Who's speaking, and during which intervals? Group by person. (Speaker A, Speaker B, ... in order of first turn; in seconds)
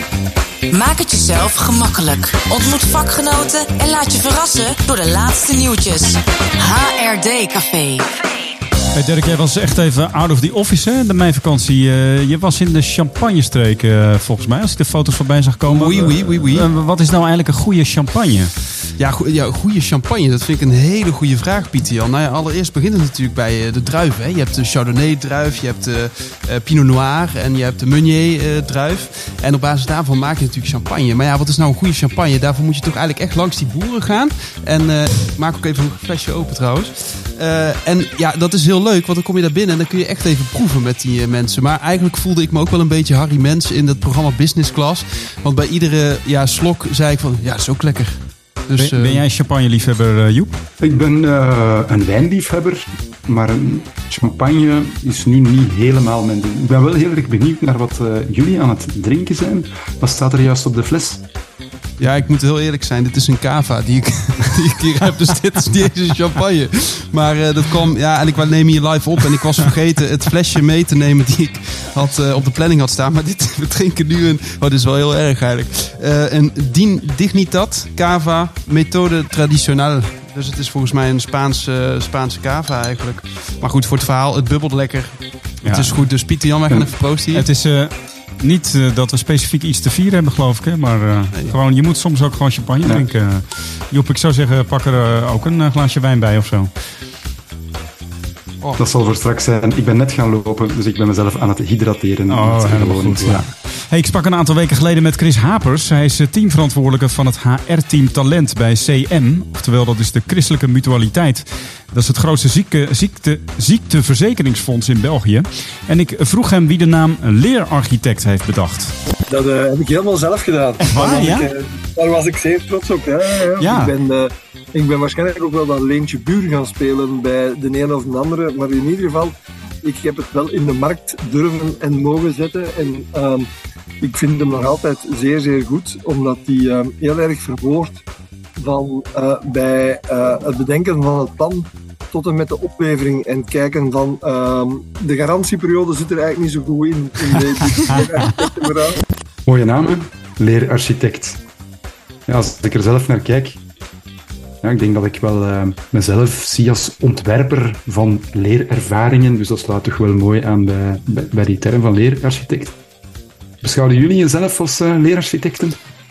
Speaker A: 0.7-8.2
Speaker B: 8.9-18.5, 48.8-50.5, 85.6-86.1, 87.3-96.7, 102.3-118.9, 120.8-121.5, 123.6-123.9
Speaker C: 15.7-16.7, 19.0-49.2, 62.0-87.5
Speaker D: 50.8-61.2, 98.8-103.5, 149.4-151.4, 152.3-153.6, 154.6-162.8, 163.6-165.8
Speaker E: 119.3-133.5, 134.0-138.0, 138.6-149.0